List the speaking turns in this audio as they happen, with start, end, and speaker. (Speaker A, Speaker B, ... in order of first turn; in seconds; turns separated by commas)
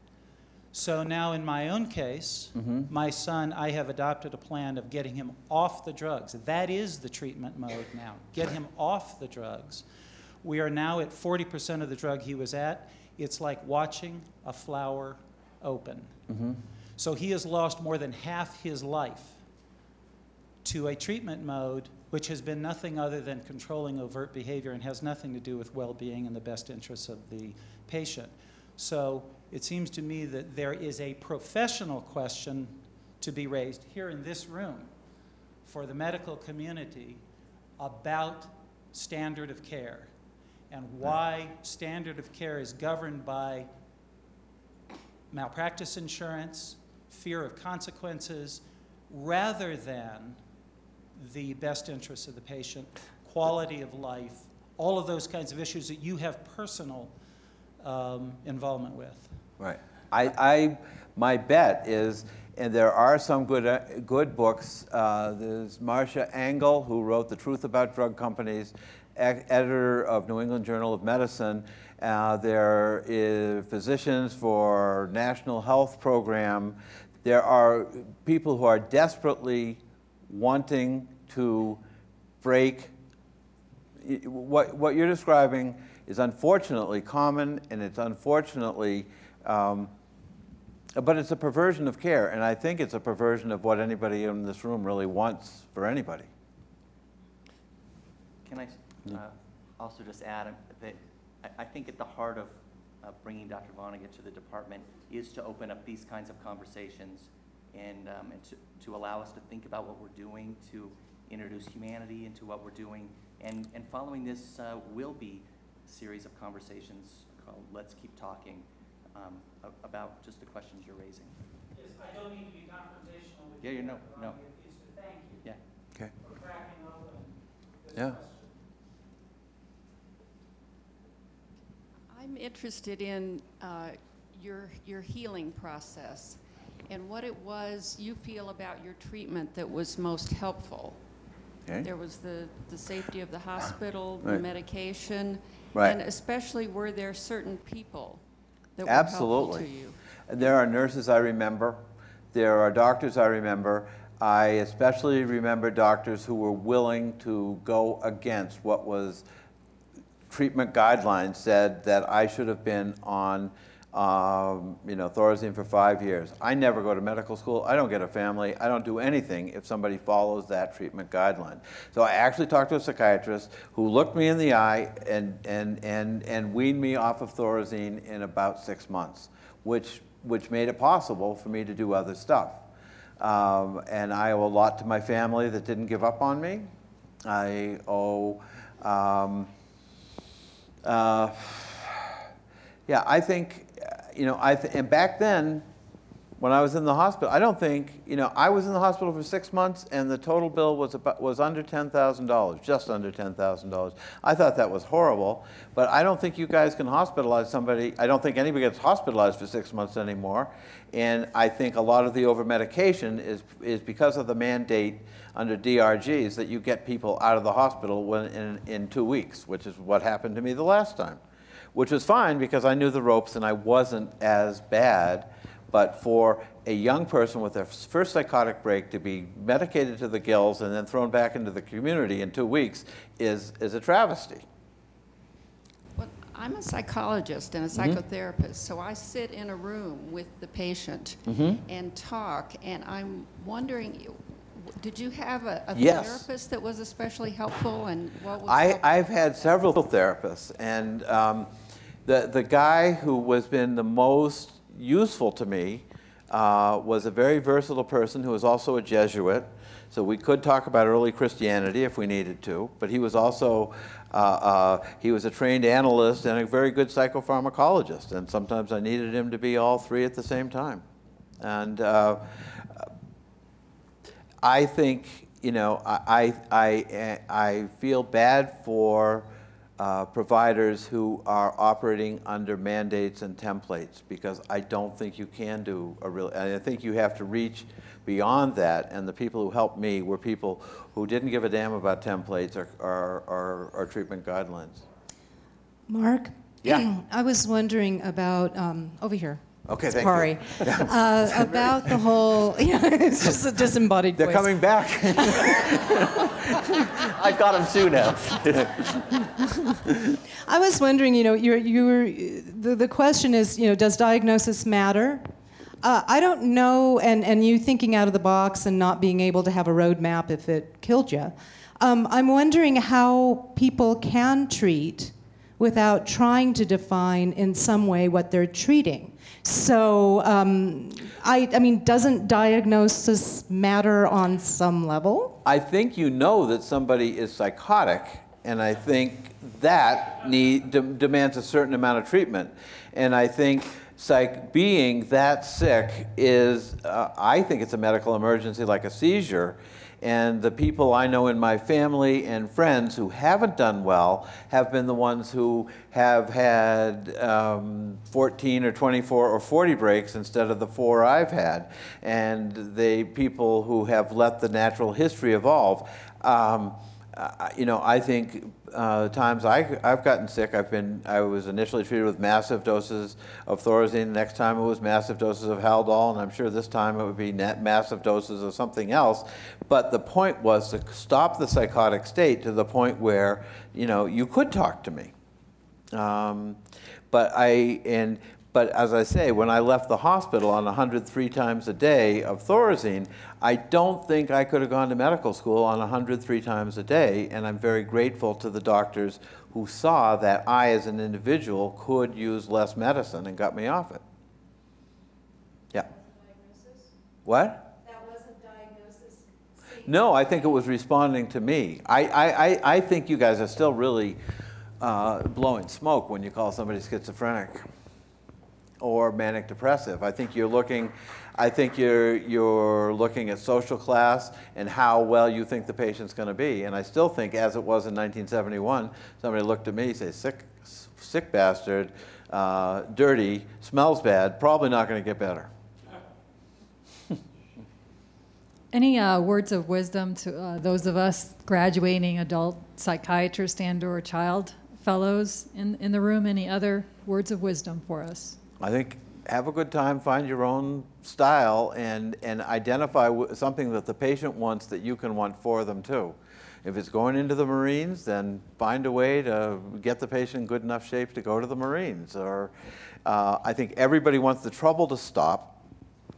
Speaker A: 0.7-9.8, Speaker B: 2.5-2.9, Speaker A: 10.4-16.1, Speaker B: 16.3-16.6, Speaker A: 17.0-19.4, Speaker A: 20.6-34.9, Speaker A: 35.6-37.2, Speaker A: 37.8-40.1, Speaker A: 40.7-43.7, Speaker A: 45.3-50.4, Speaker A: 51.1-57.1, Speaker A: 57.8-59.3, Speaker B: 59.6-81.8, Speaker B: 82.4-82.9, Speaker B: 84.0-89.9, Speaker B: 91.0-96.3, Speaker C: 98.4-121.4, Speaker A: 121.8-125.4, Speaker C: 123.6-124.4, Speaker A: 126.2-128.5, Speaker B: 127.9-128.2, Speaker D: 132.1-141.0, Speaker D: 141.8-148.2, Speaker D: 148.8-149.9, Speaker B: 148.8-149.7, Speaker B: 150.3-159.2, Speaker B: 160.3-182.6, Speaker B: 183.2-186.7, Speaker B: 187.2-189.5, Speaker B: 190.8-192.2, Speaker B: 192.9-195.6, Speaker B: 196.4-221.2, Speaker B: 221.7-234.4, Speaker D: 235.9-248.9, Speaker B: 237.7-238.0, Speaker B: 241.2-241.6, Speaker B: 245.7-246.3, Speaker B: 248.4-251.5, Speaker B: 252.1-270.8, Speaker B: 271.4-272.9, Speaker B: 274.4-294.8, Speaker E: 295.9-305.6, Speaker B: 299.7-301.6, Speaker B: 304.1-306.3, Speaker C: 307.0-309.0, Speaker E: 310.4-315.3, Speaker E: 315.8-335.4, Speaker B: 335.4-385.1, Speaker B: 385.9-386.6, Speaker B: 387.1-404.0, Speaker B: 407.2-407.8, Speaker B: 409.8-414.2, Speaker B: 414.8-417.7, Speaker B: 418.8-435.5, Speaker F: 438.7-448.4, Speaker B: 448.6-462.5, Speaker B: 463.0-465.6